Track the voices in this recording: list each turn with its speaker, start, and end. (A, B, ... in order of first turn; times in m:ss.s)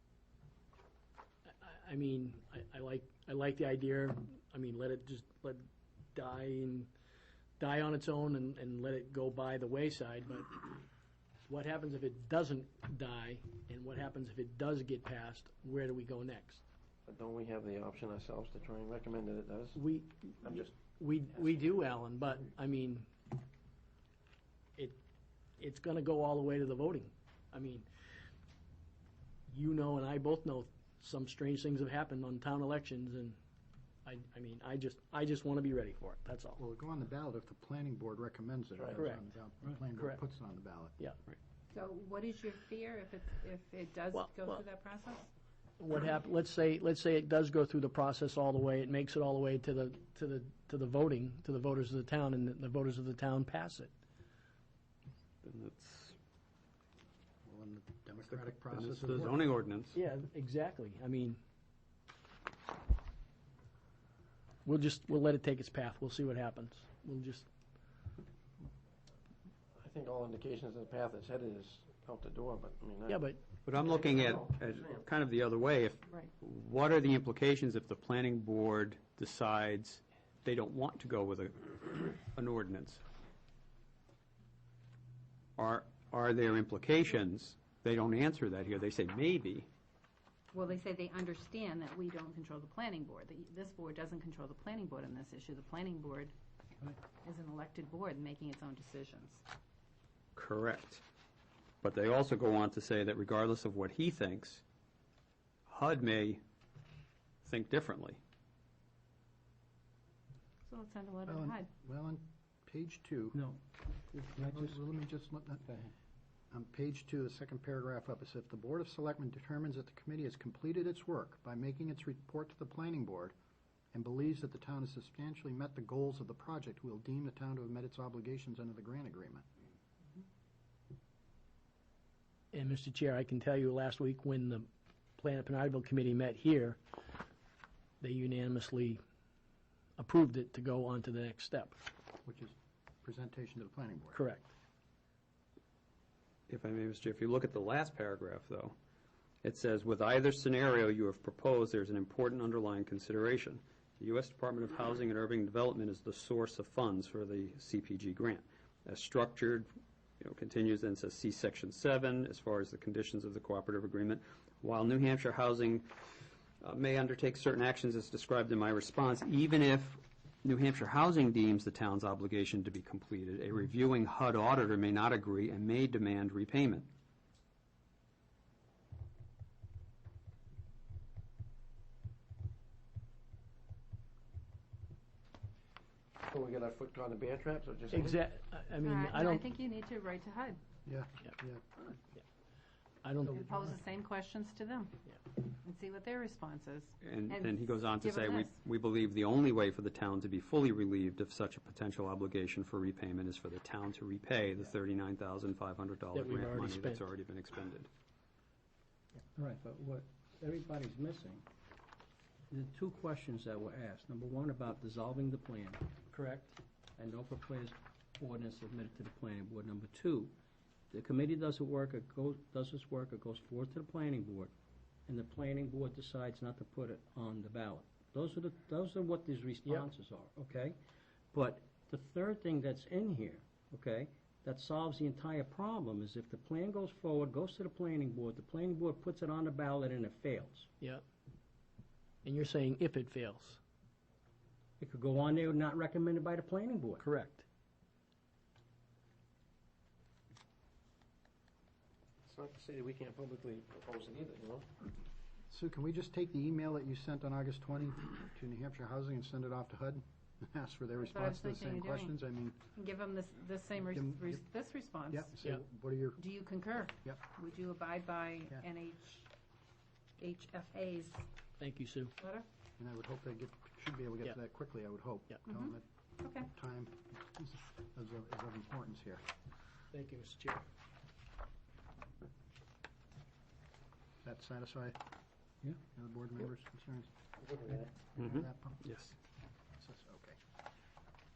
0:01.5-0:06.9 A
0:07.6-0:10.7 A
0:11.5-0:16.6 A
0:17.0-0:19.8 B
0:19.7-0:23.1 A
0:20.4-0:21.8 B
0:25.6-0:27.9 A
0:29.5-0:33.4 A
0:34.0-0:36.6 A
0:36.6-0:40.9 C
0:38.8-0:39.0 B
0:38.9-0:39.3 A
0:41.7-0:45.3 D
0:44.1-0:44.6 A
0:45.8-0:53.9 A
0:55.4-0:56.2 E
0:57.4-0:59.5 C
0:58.3-1:00.0 E
0:59.9-1:01.4 A
1:04.6-1:07.5 A
1:09.8-1:15.0 B
1:13.1-1:13.4 A
1:13.6-1:23.0 E
1:25.6-1:29.7 E
1:30.5-1:36.3 D
1:37.2-1:39.4 D
1:40.3-1:41.0 E
1:41.8-1:44.6 E
1:45.7-1:46.4 E
1:47.4-1:48.2 E
1:50.7-1:51.7 D
1:51.2-1:53.4 C
1:53.3-1:53.6 F
1:54.2-1:54.7 F
1:54.3-1:55.7 C
1:56.5-2:03.3 C
2:03.9-2:09.4 C
2:12.5-2:14.7 A
2:15.2-2:16.8 A
2:18.0-2:19.0 A
2:20.0-2:21.8 A
2:22.2-2:24.2 C
2:24.1-2:24.5 A
2:26.5-2:28.7 E
2:29.4-2:39.7 E
2:40.2-2:45.9 E
2:46.6-2:56.9 E
3:06.2-3:08.2 B
3:07.9-3:09.4 A
3:08.8-3:10.6 D
3:10.8-3:11.6 C
3:13.0-3:13.7 A
3:13.3-3:18.6 D
3:17.0-3:27.9 E
3:26.1-3:27.0 A
3:29.4-3:31.4 F
3:32.5-3:35.8 F
3:36.1-3:36.5 A
3:37.0-3:40.3 F
3:40.9-3:44.5 F
3:45.1-3:50.8 F
3:51.3-4:00.7 F
4:02.2-4:03.6 A
4:04.8-4:07.0 F
4:07.0-4:07.4 A
4:12.2-4:14.7 B
4:15.5-4:22.6 C
4:21.0-4:22.2 D
4:22.8-4:25.4 D
4:23.8-4:24.4 C
4:25.1-4:26.2 C
4:26.2-4:29.3 D
4:30.2-4:31.2 D
4:31.6-4:32.2 A
4:32.2-4:32.4 D
4:32.8-4:35.8 C
4:35.5-4:36.5 D
4:36.5-4:39.2 C
4:39.9-4:40.6 A
4:44.2-4:45.0 C
4:45.9-4:47.1 C
4:47.5-4:47.8 B
4:47.7-4:48.9 C
4:48.2-4:49.1 E
4:49.8-4:50.4 C